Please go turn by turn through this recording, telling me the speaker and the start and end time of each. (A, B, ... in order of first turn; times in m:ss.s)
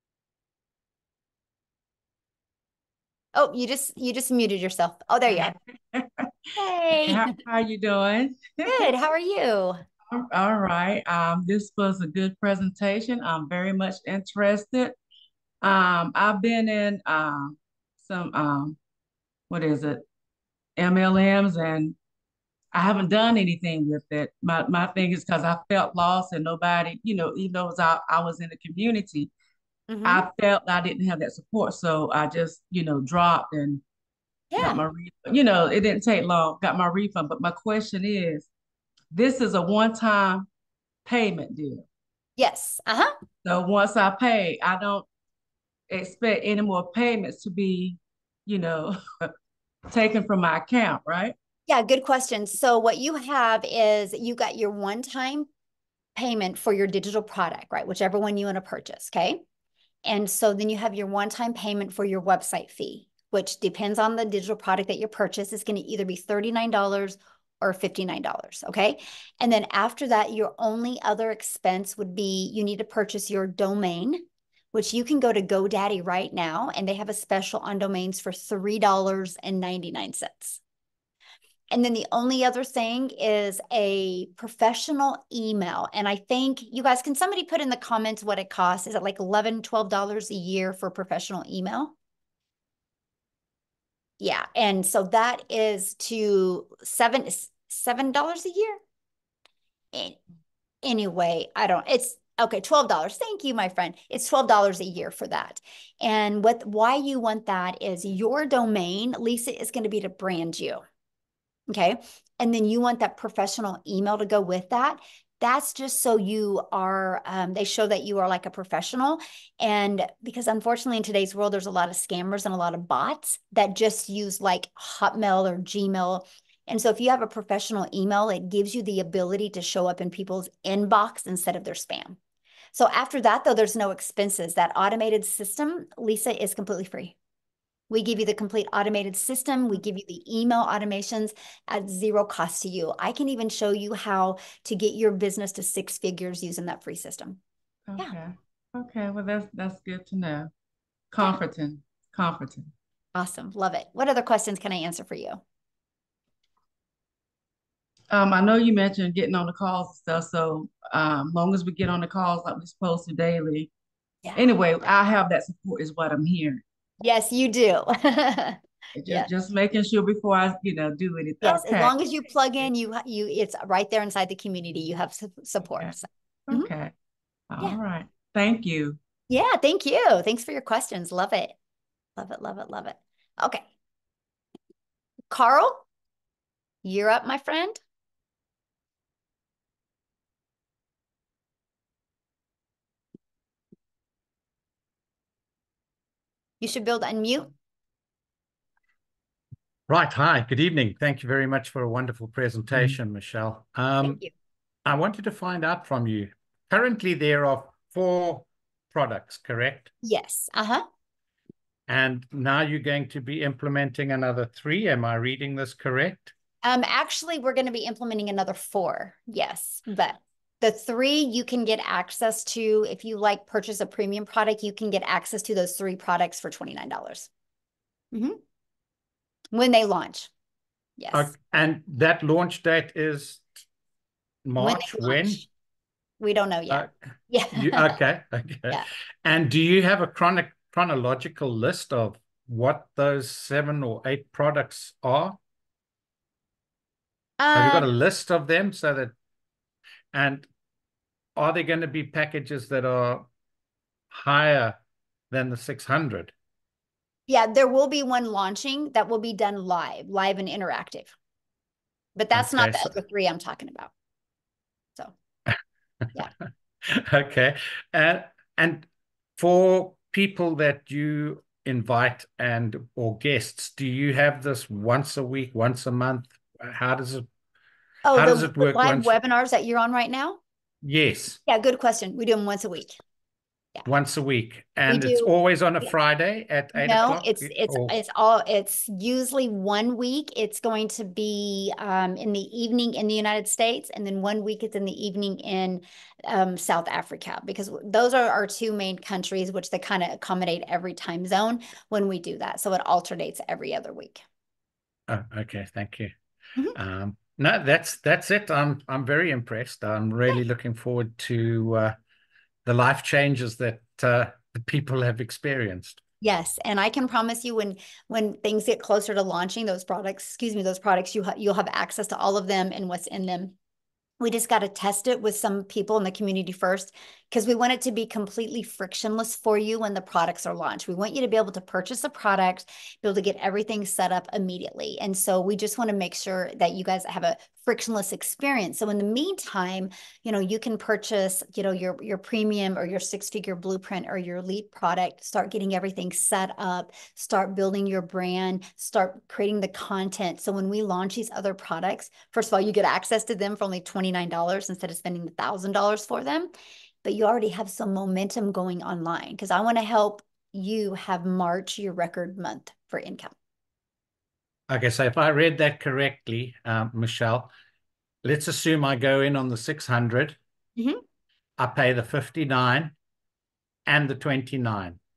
0:03.4-0:05.6 A
0:05.3-0:06.3 B
0:06.6-0:07.3 A
0:07.0-0:08.9 B
0:08.6-0:09.8 A
0:10.1-0:15.0 B
0:15.6-0:18.8 B
0:19.5-0:20.0 B
0:20.8-0:21.9 B
0:22.7-0:29.3 B
0:29.9-0:30.3 A
0:30.0-0:33.8 B
0:34.5-0:34.8 A
0:34.6-0:38.5 B
0:39.1-0:40.5 B
0:41.1-0:41.8 B
0:42.4-0:43.1 A
0:43.4-0:45.1 B
0:45.9-0:49.0 B
0:49.9-0:51.3 B
0:51.7-0:55.5 A
0:56.2-0:59.4 A
1:00.0-1:20.6 A
1:21.7-1:31.9 A
1:34.2-1:38.8 A
1:39.9-1:40.2 A
1:40.8-1:50.8 A
1:51.7-2:12.2 A
2:12.8-2:17.2 A
2:17.9-2:27.4 A
2:27.9-2:30.5 B
2:31.1-2:32.7 B
2:33.2-2:35.4 A
2:38.1-2:43.7 B
2:44.2-2:44.6 A
2:44.4-2:46.6 B
2:47.0-2:49.3 A
2:49.0-2:51.9 B
2:51.4-2:56.7 A
2:56.5-2:56.9 B
2:57.5-2:59.0 B
2:59.3-3:01.6 A
3:02.2-3:03.7 A
3:05.3-3:05.8 A
3:06.8-3:07.8 A
3:16.6-3:17.5 A
3:19.9-3:24.2 C
3:24.0-3:24.3 A
3:24.8-3:29.9 C
3:30.0-3:30.9 A
3:31.9-3:36.3 C
3:36.6-3:47.3 A
3:48.1-3:48.4 A
3:49.5-3:50.3 A
3:51.0-3:51.3 A
3:51.1-3:53.5 C
3:54.4-3:55.4 C
3:54.6-3:55.5 A
3:56.2-3:58.0 A
3:57.5-4:05.4 C
4:07.4-4:07.9 A
4:07.5-4:09.1 C
4:10.1-4:10.5 C
4:11.4-4:13.3 C
4:14.1-4:14.8 C
4:15.3-4:16.3 C
4:17.3-4:21.1 A
4:22.2-4:23.9 A
4:22.3-4:22.9 C
4:26.9-4:37.3 C
4:38.0-4:40.4 A
4:38.1-4:39.2 C
4:40.8-4:41.4 C
4:41.5-4:43.0 A
4:43.8-4:48.0 C
4:44.9-4:45.3 A
4:46.8-5:04.2 A
5:05.1-5:06.1 C
5:06.8-5:12.0 C
5:12.6-5:16.0 C
5:16.2-5:23.5 A
5:24.2-5:56.5 A
5:57.0-6:03.3 A
6:04.7-6:07.5 C
6:08.2-6:10.4 C
6:10.8-6:11.0 A
6:11.6-6:13.0 C
6:13.9-6:15.0 C